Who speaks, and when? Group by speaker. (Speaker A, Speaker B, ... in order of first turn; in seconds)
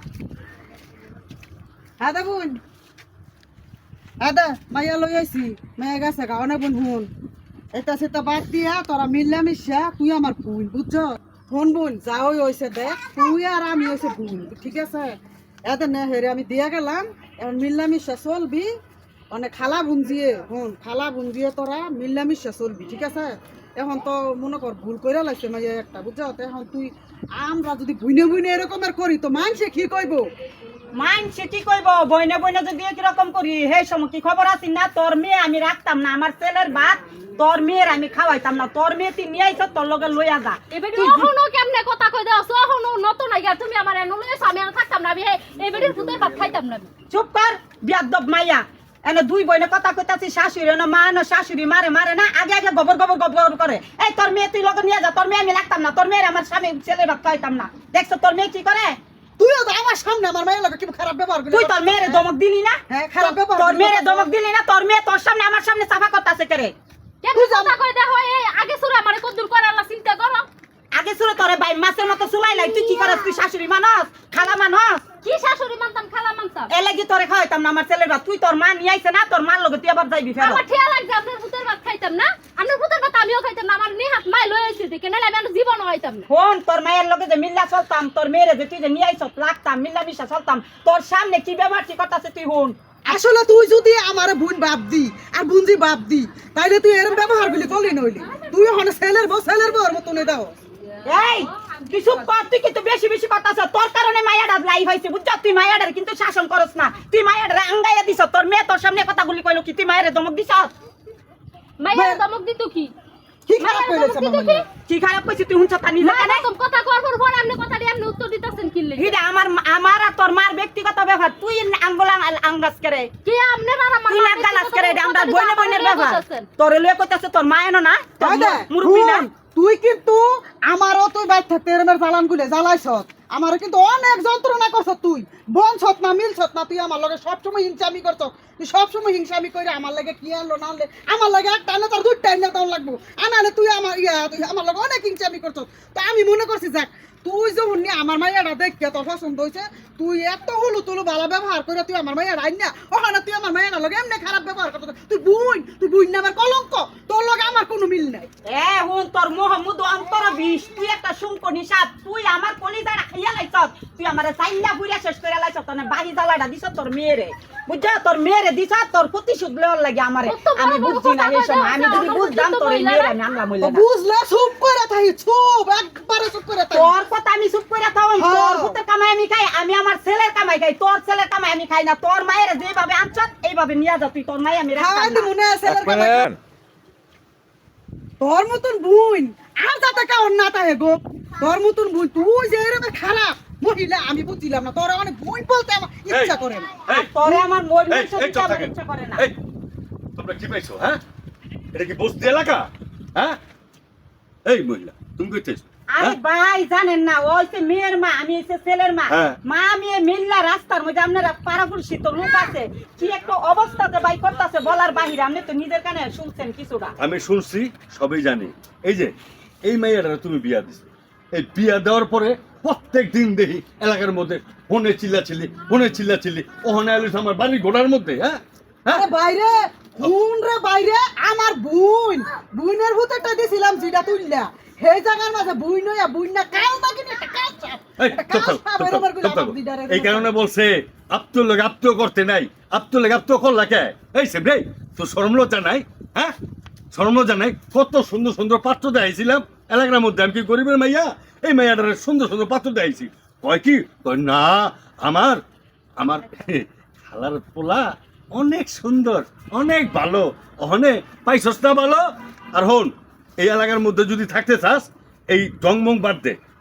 Speaker A: 2.0-2.6, 4.2-7.1, 7.8-18.7, 19.3-30.3, 59.4-62.2, 62.9-64.3, 67.3-67.8, 93.1-100.5, 111.9-112.2, 113.5-114.6, 128.2-158.3, 173.6-176.9, 178.2-178.8, 184.8-186.3, 188.2-197.4, 228.9-240.3
Speaker B: 30.9-41.3, 47.1-59.0, 61.5-66.7, 70.9-75.1, 76.7-80.6, 86.3-92.9, 101.1-110.7, 114.8-116.5, 119.0-123.1, 124.1-129.3, 158.5-173.8, 176.7-185.3, 196.9-199.2, 205.9-216.9
Speaker C: 40.7-46.9, 67.2-70.5, 72.6-73.4, 75.2-76.7, 80.4-86.3, 97.3-97.8, 111.8-112.9, 113.6-114.7, 116.0-119.2, 123.2-126.5, 170.3-173.2
Speaker D: 45.7-46.6, 185.9-186.4, 196.1-196.3, 197.9-199.4, 200.2-201.0, 201.7-203.4, 204.5-206.2, 209.1-209.4, 217.0-219.1, 219.7-229.1, 238.0-246.3, 246.9-255.4, 256.0-266.4